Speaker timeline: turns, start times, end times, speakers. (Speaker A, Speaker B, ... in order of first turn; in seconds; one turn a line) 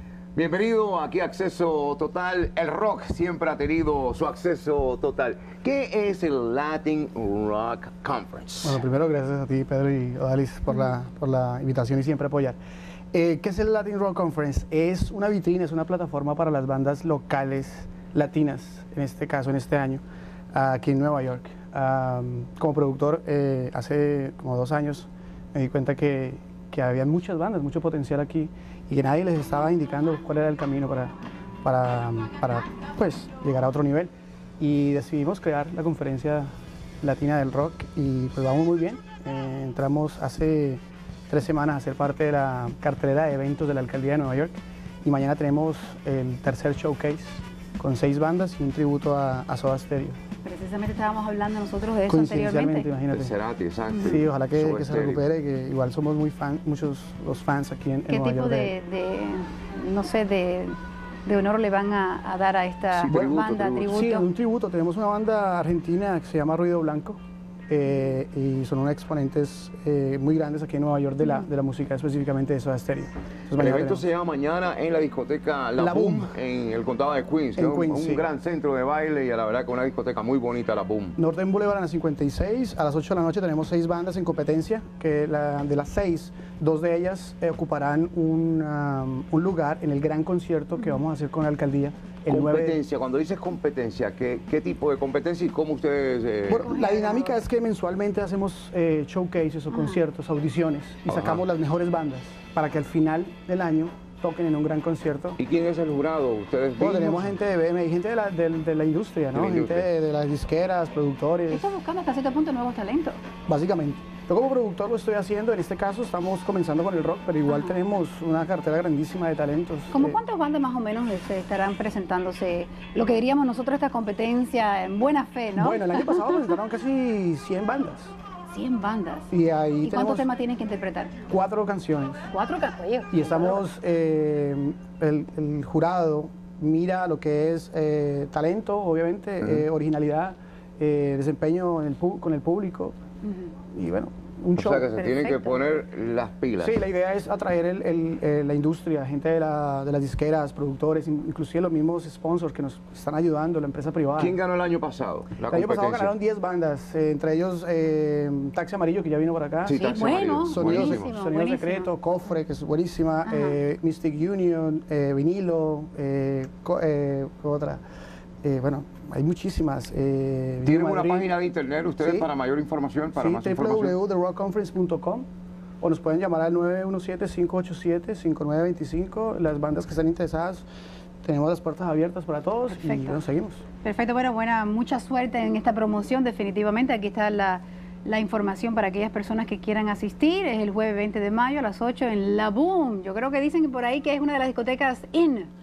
Speaker A: 0.3-8.8
Speaker B: 8.6-12.6
Speaker B: 13.1-20.0
Speaker B: 20.5-31.1
Speaker B: 31.6-36.5
Speaker B: 37.0-50.2
Speaker C: 50.5-52.9
Speaker B: 52.1-53.3
Speaker A: 53.1-55.2
Speaker C: 53.9-54.2
Speaker B: 54.0-58.7
Speaker C: 58.1-64.3
Speaker A: 62.9-64.0
Speaker B: 63.1-74.0
Speaker C: 71.2-71.5
Speaker A: 73.6-81.2
Speaker B: 75.8-76.3
Speaker B: 77.6-78.3
Speaker B: 81.2-92.8
Speaker C: 90.8-91.0
Speaker A: 92.3-96.7
Speaker B: 96.5-105.4
Speaker C: 96.5-97.4
Speaker C: 99.7-100.0
Speaker A: 101.1-101.4
Speaker A: 105.4-107.3
Speaker B: 106.8-111.7
Speaker A: 109.3-109.9
Speaker C: 111.5-113.2
Speaker B: 113.5-120.2
Speaker C: 117.5-117.8
Speaker C: 119.9-126.4
Speaker B: 125.5-128.1
Speaker C: 128.5-129.3
Speaker B: 129.3-130.3
Speaker C: 129.8-131.1
Speaker B: 131.3-132.2
Speaker C: 132.2-133.6
Speaker B: 133.1-142.9
Speaker C: 143.2-143.5
Speaker B: 143.7-145.0
Speaker A: 144.6-146.8
Speaker C: 145.0-145.7
Speaker B: 146.6-154.4
Speaker A: 154.2-156.1
Speaker B: 155.5-167.8
Speaker A: 159.7-161.1
Speaker C: 159.7-161.9
Speaker C: 163.2-163.6
Speaker B: 168.4-171.3
Speaker A: 170.7-174.0
Speaker B: 172.0-172.3
Speaker B: 173.1-175.2
Speaker B: 175.8-180.7
Speaker B: 181.2-183.6
Speaker C: 182.7-183.2
Speaker C: 183.8-195.5